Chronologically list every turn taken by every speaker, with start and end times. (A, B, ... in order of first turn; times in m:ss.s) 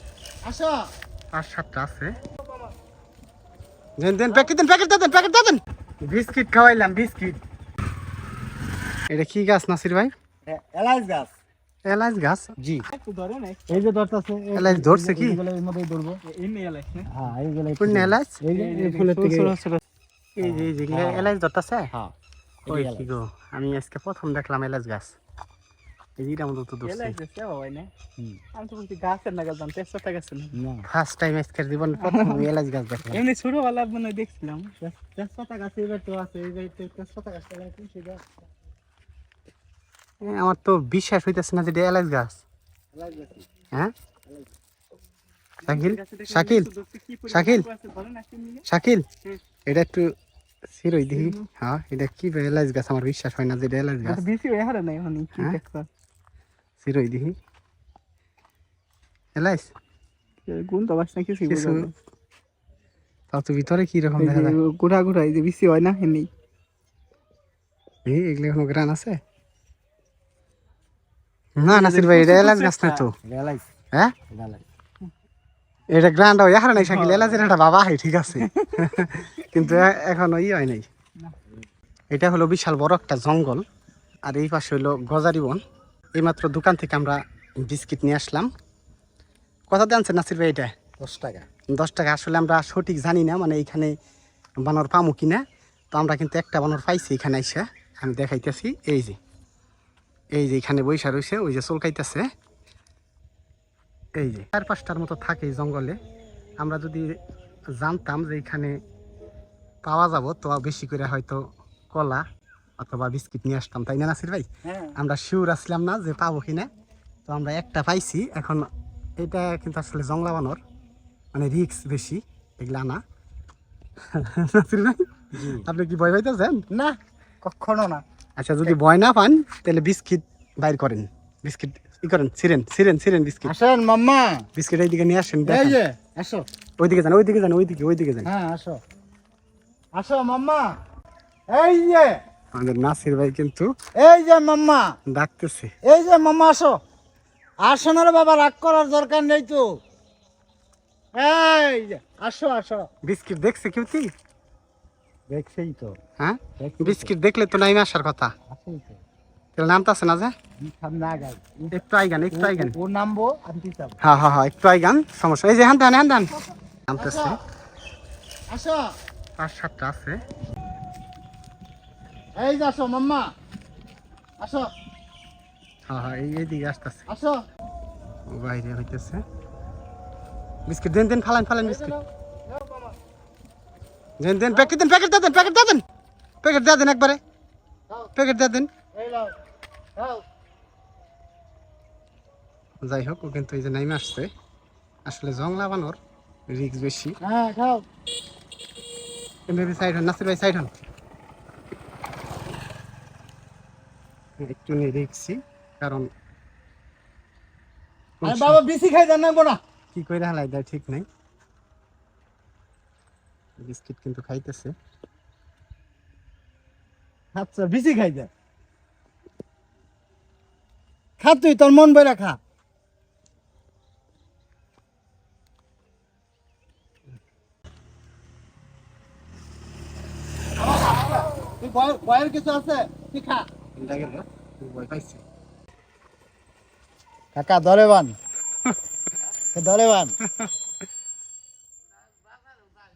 0:00.4-0:00.8 A
0:01.3-0:02.2 B
0:04.0-0:07.4 B
0:09.1-0:10.1 B
0:10.5-0:11.3 A
0:11.8-0:12.5 B
0:12.6-0:12.8 A
0:12.9-0:13.6 C
0:13.7-0:16.2 A
0:14.5-0:15.4 B
0:16.2-0:17.1 C
0:17.1-0:19.5 A
0:17.8-0:18.4 B
0:18.5-0:19.5 C
0:19.0-0:19.8 B
0:20.4-0:21.9 B
0:20.4-0:21.3 A
0:22.6-0:23.1 A
0:22.7-0:25.2 B
0:26.2-0:27.2 B
0:26.8-0:27.9 C
0:28.5-0:30.6 C
0:30.5-0:30.9 A
0:30.8-0:33.2 B
0:32.0-0:32.4 C
0:33.1-0:34.7 C
0:34.8-0:38.2 A
0:40.2-0:42.4 B
0:42.9-0:43.4 A
0:45.6-0:46.7 B
0:45.6-0:48.6 C
0:47.3-0:47.7 B
0:48.6-0:49.0 B
0:49.7-0:50.1 B
0:50.7-0:54.2 B
0:51.1-0:51.4 C
0:54.0-0:55.9 C
0:56.8-0:57.3 B
0:59.4-0:59.7 B
1:00.5-1:01.9 C
1:01.5-1:01.9 B
1:03.3-1:04.6 B
1:04.2-1:06.3 C
1:08.0-1:09.2 B
1:11.6-1:13.1 B
1:11.6-1:13.0 C
1:13.2-1:13.6 A
1:14.3-1:14.6 A
1:15.9-1:20.9 B
1:16.8-1:17.4 C
1:18.4-1:18.8 C
1:19.5-1:19.9 C
1:22.1-1:23.6 B
1:24.2-1:25.6 B
1:26.2-1:28.5 B
1:29.7-1:30.7 B
1:31.0-1:31.5 A
1:31.7-1:33.9 B
1:34.6-1:39.2 B
1:40.3-1:42.3 B
1:44.2-1:46.0 B
1:46.6-1:47.2 B
1:47.8-1:48.8 B
1:49.8-1:52.2 B
1:52.8-1:56.7 B
1:54.6-1:54.9 A
1:57.2-2:00.6 B
2:01.3-2:03.0 B
2:04.1-2:06.6 B
2:05.3-2:05.6 A
2:06.7-2:08.0 A
2:08.4-2:13.5 B
2:13.4-2:14.5 A
2:14.6-2:15.8 B
2:15.4-2:16.4 A
2:16.8-2:18.3 B
2:18.2-2:18.8 A
2:19.9-2:20.7 A
2:21.5-2:22.2 A
2:22.5-2:23.7 B
2:24.0-2:24.9 A
2:25.1-2:25.7 B
2:25.8-2:26.8 A
2:27.6-2:29.6 A
2:31.2-2:32.9 A
2:33.0-2:34.1 B
2:35.3-2:36.0 A
2:36.2-2:38.3 B
2:36.6-2:37.1 A
2:38.5-2:39.0 A
2:39.6-2:40.3 B
2:40.6-2:41.8 A
2:41.7-2:42.8 B
2:42.3-2:44.0 A
2:44.0-2:47.4 B
2:47.0-2:47.4 A
2:48.5-2:48.9 A
2:49.4-2:50.2 B
2:52.4-2:53.3 A
2:54.4-2:54.7 A
2:55.9-2:57.0 B
2:57.1-2:57.4 A
2:58.3-2:59.2 B
3:00.7-3:01.9 B
3:01.6-3:03.0 A
3:04.2-3:05.8 B
3:04.5-3:04.8 A
3:06.4-3:07.2 B
3:08.2-3:08.7 B
3:08.9-3:09.3 A
3:10.0-3:10.2 A
3:12.8-3:14.3 B
3:15.0-3:17.2 B
3:17.2-3:17.8 A
3:19.5-3:20.7 B
3:24.4-3:26.1 B
3:28.2-3:28.6 B
3:28.2-3:29.6 A
3:29.9-3:31.0 B
3:33.6-3:34.7 B
3:37.3-3:38.3 A
3:41.2-3:42.4 A
3:50.6-3:53.5 A
3:53.7-3:55.2 B
3:57.3-3:58.1 A
3:59.5-4:00.1 A